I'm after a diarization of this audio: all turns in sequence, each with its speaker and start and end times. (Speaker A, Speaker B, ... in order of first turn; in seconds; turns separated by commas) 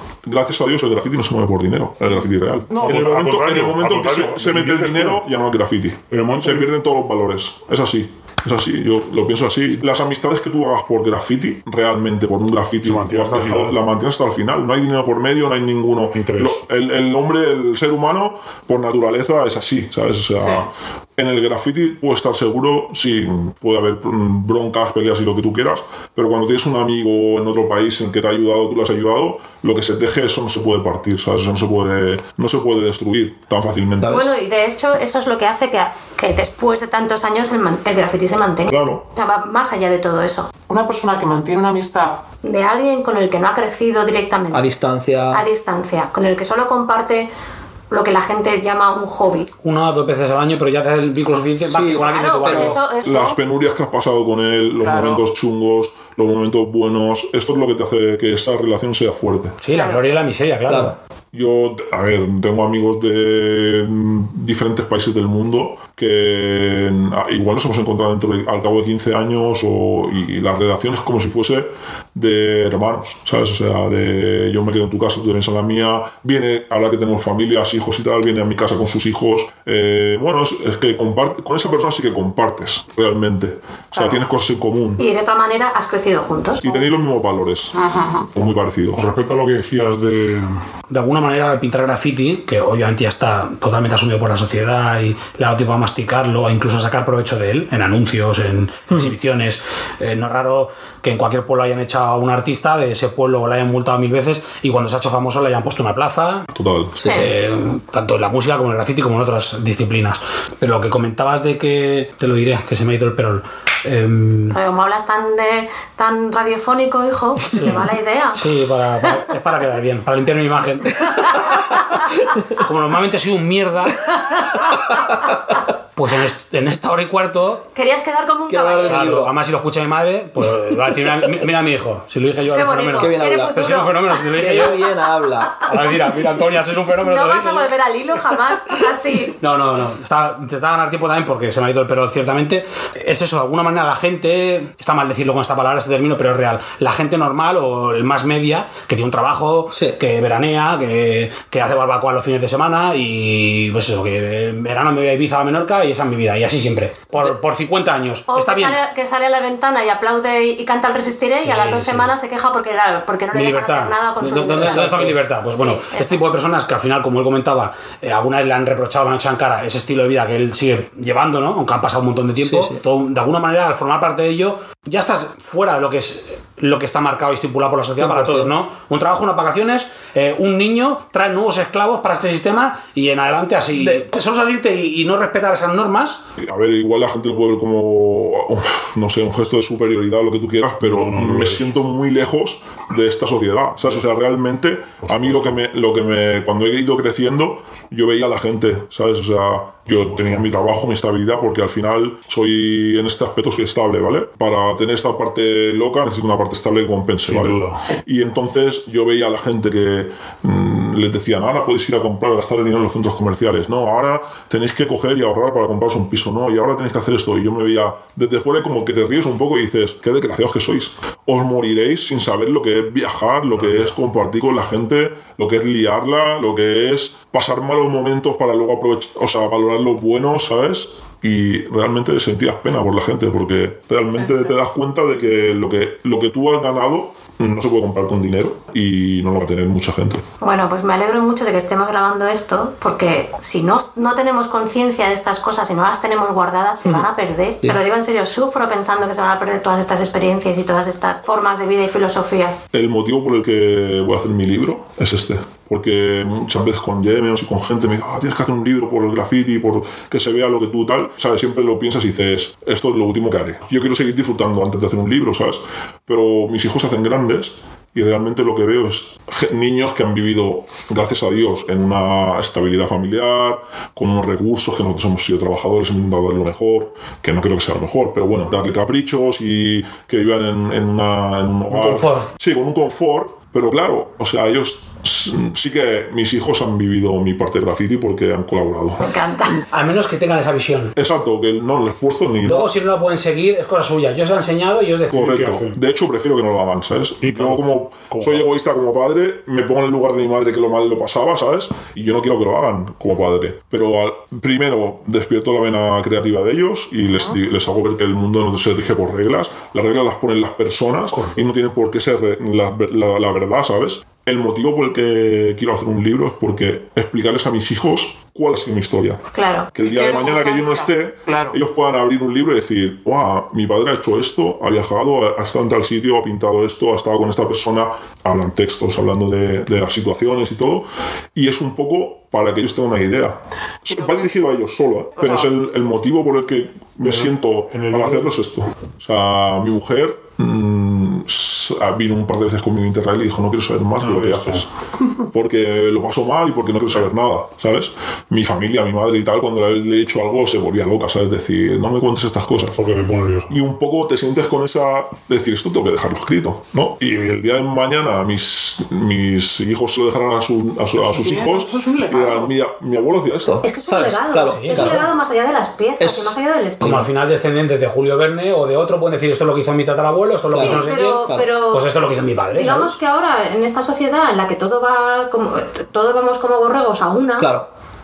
Speaker A: 0.2-34.2, Speaker B: 2.7-5.2, Speaker C: 2.7-3.3, Speaker B: 6.1-6.7, Speaker B: 12.8-13.8, Speaker B: 16.1-16.6, Speaker C: 20.4-20.7, Speaker D: 34.0-34.3, Speaker E: 34.0-40.5, Speaker A: 38.6-39.0, Speaker C: 40.7-42.2, Speaker E: 42.4-44.7, Speaker D: 44.5-45.4, Speaker E: 45.3-47.3, Speaker E: 47.9-49.5, Speaker F: 49.6-52.8, Speaker D: 51.7-52.8, Speaker E: 52.0-53.4, Speaker A: 53.0-59.5, Speaker C: 54.8-55.2, Speaker F: 59.6-60.9, Speaker E: 59.7-60.0, Speaker D: 60.7-61.0, Speaker A: 61.3-85.0, Speaker C: 83.9-84.2, Speaker E: 85.0-86.7, Speaker A: 86.6-89.0, Speaker C: 87.7-88.3, Speaker B: 88.9-90.6, Speaker F: 90.9-106.5, Speaker A: 106.5-106.9, Speaker E: 107.0-107.3, Speaker D: 107.0-107.3, Speaker F: 107.0-114.6, Speaker E: 114.5-118.4, Speaker F: 117.5-121.1, Speaker E: 121.1-121.7, Speaker F: 122.5-124.1, Speaker E: 124.4-124.7, Speaker F: 125.9-127.7, Speaker E: 127.7-129.2, Speaker D: 128.5-129.3, Speaker F: 128.8-134.8, Speaker E: 132.5-134.8, Speaker D: 133.0-133.7, Speaker D: 134.3-135.6, Speaker F: 135.6-137.7, Speaker E: 137.0-139.3, Speaker F: 139.4-158.8, Speaker D: 149.7-150.0, Speaker E: 158.3-166.2, Speaker F: 161.4-162.1, Speaker F: 163.3-186.2, Speaker D: 164.2-165.2, Speaker D: 172.4-172.8, Speaker D: 178.0-178.5, Speaker D: 183.7-184.1, Speaker A: 186.4-240.2, Speaker B: 190.8-191.7, Speaker B: 195.1-195.4, Speaker B: 199.9-200.5, Speaker B: 207.2-207.8, Speaker B: 223.6-223.9, Speaker E: 240.4-252.6, Speaker A: 252.7-289.1, Speaker F: 281.7-282.3, Speaker E: 289.0-289.6, Speaker F: 289.7-290.9, Speaker A: 290.9-292.7, Speaker F: 292.4-295.4, Speaker A: 295.1-319.2, Speaker B: 295.1-295.8, Speaker B: 297.2-298.4, Speaker B: 311.1-311.4, Speaker E: 319.3-319.7, Speaker A: 319.7-344.7, Speaker C: 319.8-321.6, Speaker C: 333.9-334.3, Speaker C: 335.1-335.5, Speaker B: 337.0-338.3, Speaker B: 344.0-344.6, Speaker A: 345.2-352.8, Speaker B: 352.7-353.5, Speaker A: 353.5-363.6, Speaker C: 361.0-362.5, Speaker D: 363.4-365.1, Speaker E: 363.6-367.0, Speaker F: 364.4-365.1, Speaker D: 366.0-367.1, Speaker F: 366.8-373.0, Speaker D: 370.5-371.4, Speaker E: 370.5-371.9, Speaker E: 372.5-377.5, Speaker D: 377.4-377.7